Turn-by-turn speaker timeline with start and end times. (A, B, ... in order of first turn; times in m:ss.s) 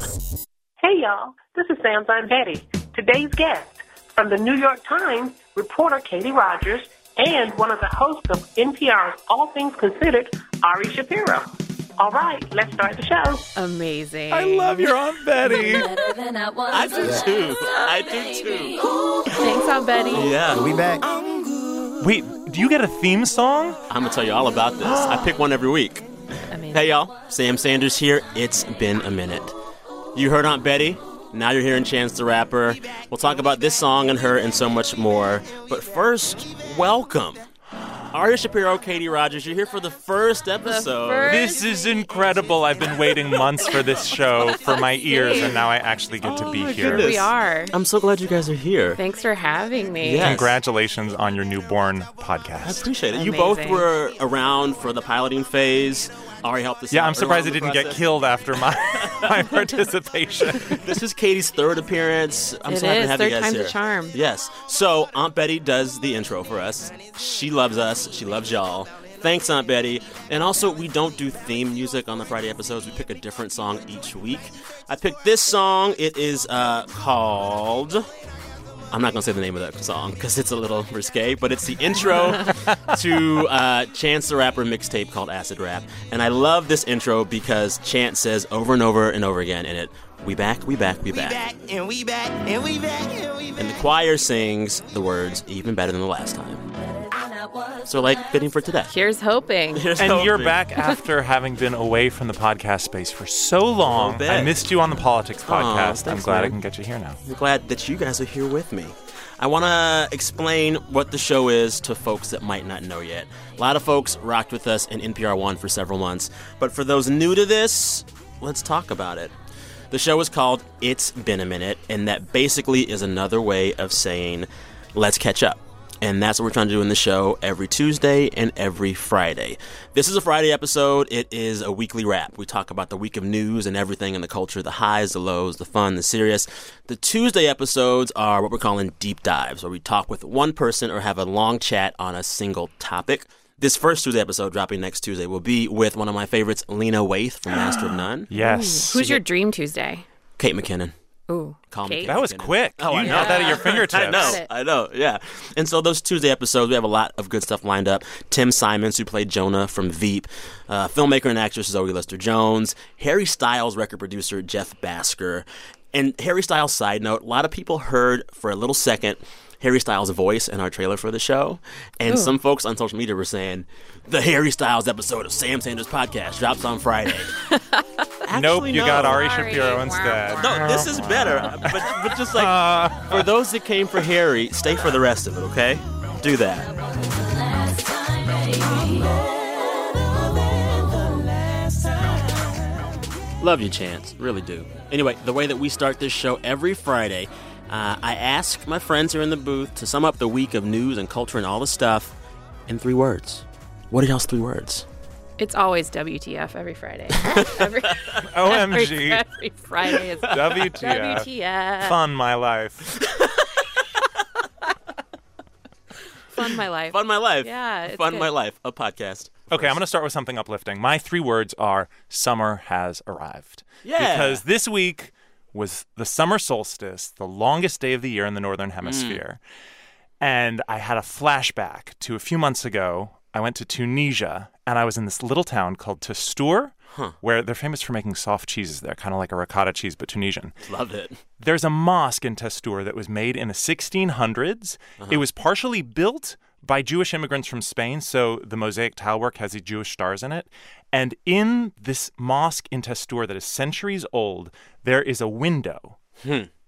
0:00.8-0:13.5 A
0:13.6-0:15.9 B
0:14.3-0:15.9 C
0:16.7-0:18.8 D
0:19.3-0:20.3 B
0:20.1-0:20.8 D
0:20.6-0:21.0 E
0:22.0-0:23.8 C
0:23.9-0:26.1 D
0:24.8-0:25.3 C
0:26.5-0:26.9 B
0:26.7-0:29.6 D
0:30.2-0:37.5 D
0:38.1-0:41.5 D
0:40.6-0:41.6 B
0:41.2-0:47.3 C
0:44.6-0:45.6 B
0:46.2-0:49.0 D
0:46.7-0:47.8 B
0:49.0-0:50.4 B
0:50.0-0:50.6 D
0:50.2-0:52.9 C
0:52.6-0:58.1 D
0:53.1-0:53.9 B
0:56.9-1:00.8 C
0:58.8-0:59.4 D
1:00.7-1:18.1 D
1:02.7-1:04.2 B
1:18.9-1:31.5 D
1:31.5-1:33.1 E
1:33.6-1:36.7 D
1:37.8-1:38.9 D
1:38.9-1:39.9 B
1:39.7-1:40.6 D
1:40.0-1:47.2 C
1:43.8-1:44.6 D
1:45.5-1:46.6 D
1:47.2-1:59.3 D
1:59.9-2:28.3 D
2:28.3-2:29.2 C
2:28.3-2:30.0 B
2:30.4-2:30.9 D
2:31.3-2:32.2 B
2:31.7-2:57.4 D
2:32.0-2:34.4 C
2:33.0-2:34.5 B
2:52.1-2:52.3 B
2:57.5-2:57.8 B
2:58.2-2:59.3 D
2:58.3-3:03.3 C
2:59.0-3:00.8 B
3:00.4-3:06.7 D
3:13.4-3:22.2 D
3:22.7-3:24.9 D
3:25.4-3:32.0 B
3:28.2-3:29.2 C
3:30.3-3:33.0 C
3:36.3-3:38.3 B
3:36.9-3:39.8 D
3:39.5-3:49.4 C
3:43.8-3:44.4 D
3:48.8-3:49.2 D
3:50.2-4:00.6 C
3:56.9-3:57.2 D
4:00.6-4:01.2 D
4:01.4-4:16.0 C
4:05.0-4:05.2 D
4:16.2-4:16.5 D